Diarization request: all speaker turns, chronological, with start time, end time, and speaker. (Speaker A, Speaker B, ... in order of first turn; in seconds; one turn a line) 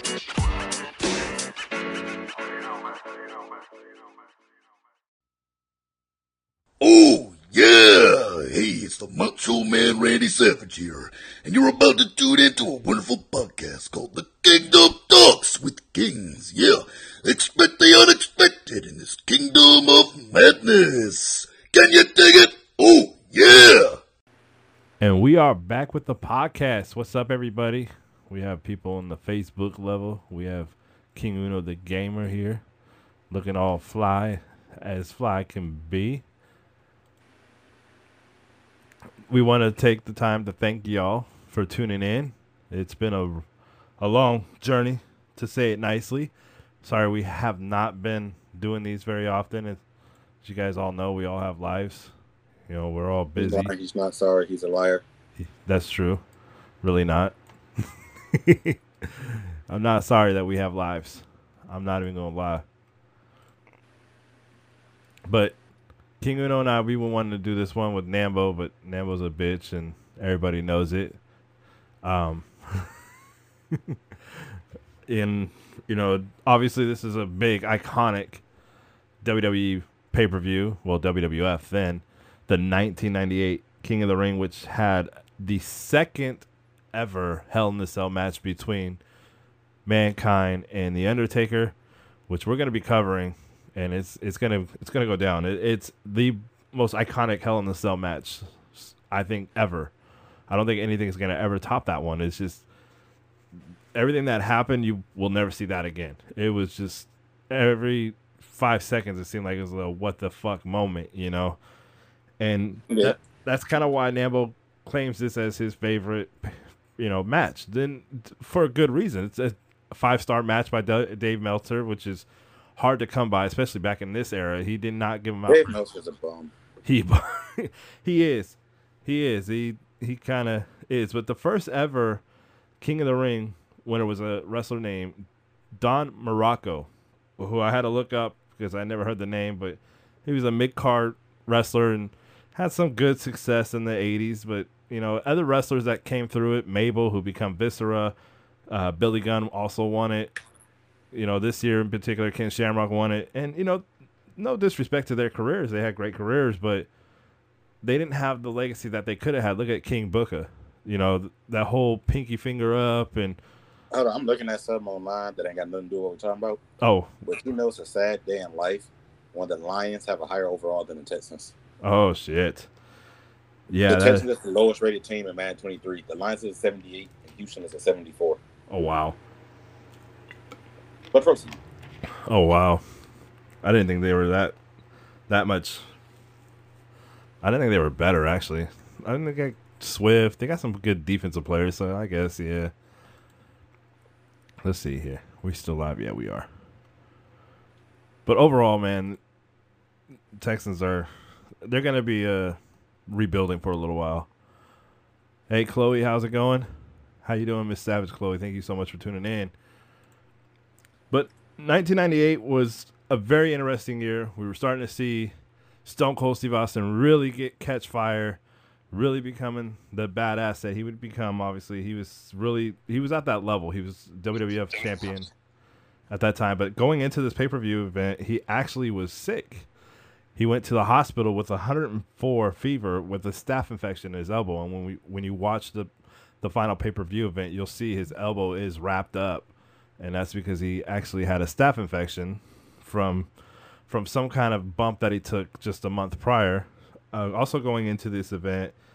Speaker A: 6.8-24.0
Speaker B: 25.0-32.6
Speaker B: 33.3-36.2
Speaker B: 39.3-43.5
Speaker B: 44.0-46.3
Speaker B: 46.8-49.8
Speaker B: 50.4-52.1
Speaker B: 52.7-53.7
Speaker C: 53.4-55.0
Speaker B: 55.4-56.2
Speaker B: 56.8-57.4
Speaker B: 58.3-62.6
Speaker B: 65.3-65.6
Speaker B: 66.2-71.2
Speaker B: 72.0-72.9
Speaker B: 75.1-78.4
Speaker B: 79.2-89.0
Speaker B: 89.9-91.8
Speaker B: 92.3-99.9
Speaker B: 100.5-102.7
Speaker B: 104.0-111.6
Speaker B: 112.4-122.3
Speaker C: 112.9-113.2
Speaker B: 122.8-125.8
Speaker C: 125.5-126.5
Speaker B: 126.8-132.2
Speaker B: 132.8-135.2
Speaker B: 135.8-148.2
Speaker B: 148.7-150.3
Speaker B: 151.1-153.8
Speaker B: 154.4-156.9
Speaker B: 157.8-163.4
Speaker C: 163.9-166.6
Speaker B: 166.8-167.1
Speaker C: 167.2-171.5
Speaker B: 171.8-172.7
Speaker B: 173.7-174.3
Speaker C: 173.9-178.4
Speaker B: 178.7-179.2
Speaker C: 181.1-181.6
Speaker B: 182.3-182.8
Speaker B: 183.6-184.6
Speaker B: 185.3-185.8
Speaker B: 187.4-192.7
Speaker B: 194.6-196.5
Speaker B: 198.3-199.2
Speaker B: 200.4-201.1
Speaker B: 201.6-204.3
Speaker B: 205.5-206.7
Speaker B: 207.2-209.5
Speaker B: 211.1-215.3
Speaker B: 215.8-218.4
Speaker B: 218.9-225.3
Speaker B: 226.1-229.7
Speaker B: 230.3-235.9
Speaker B: 236.4-239.5
Speaker B: 240.0-243.3
Speaker B: 243.9-248.7